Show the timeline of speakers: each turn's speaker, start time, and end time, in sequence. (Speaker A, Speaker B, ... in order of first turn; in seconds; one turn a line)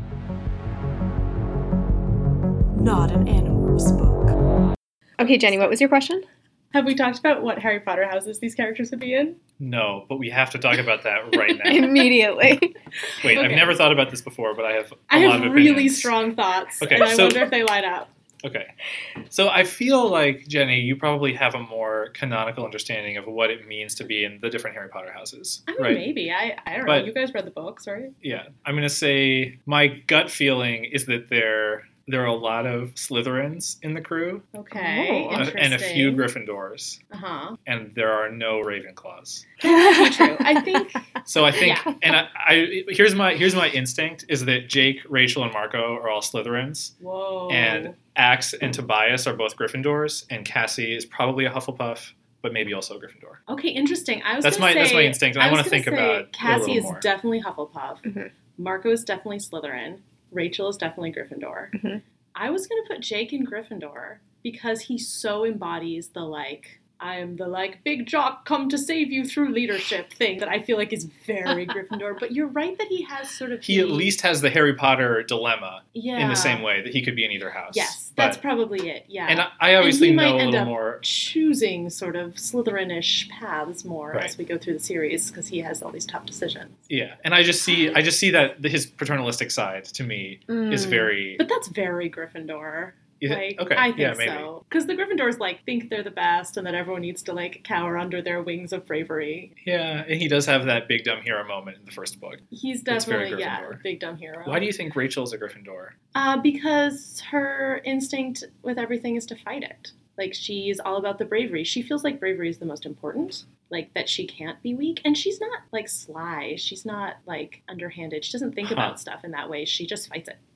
Speaker A: 2.7-4.3
Speaker B: 5.2-6.2
Speaker A: 6.7-9.4
Speaker C: 9.6-12.1
Speaker B: 11.5-12.8
Speaker C: 13.2-16.2
Speaker A: 13.3-13.8
Speaker A: 15.1-18.1
Speaker C: 16.8-17.5
Speaker C: 18.4-18.7
Speaker C: 19.3-26.1
Speaker A: 25.7-28.1
Speaker C: 26.8-27.1
Speaker C: 28.2-34.4
Speaker A: 34.5-36.3
Speaker B: 34.7-35.5
Speaker C: 35.3-37.0
Speaker A: 37.1-37.6
Speaker C: 37.6-39.5
Speaker B: 39.6-41.0
Speaker A: 39.6-41.1
Speaker C: 41.2-46.9
Speaker A: 41.6-41.9
Speaker B: 41.6-42.1
Speaker A: 47.0-47.9
Speaker C: 47.5-53.4
Speaker A: 53.5-58.0
Speaker C: 54.4-57.1
Speaker B: 58.0-58.3
Speaker A: 58.6-61.7
Speaker B: 61.7-62.0
Speaker A: 62.3-74.1
Speaker C: 73.6-78.4
Speaker A: 75.9-76.6
Speaker A: 77.7-86.8
Speaker C: 79.3-81.0
Speaker C: 86.9-91.4
Speaker B: 90.5-91.1
Speaker A: 91.4-99.5
Speaker C: 93.2-94.5
Speaker C: 99.6-103.8
Speaker A: 102.5-104.6
Speaker C: 104.4-105.9
Speaker A: 106.1-120.4
Speaker C: 118.6-118.9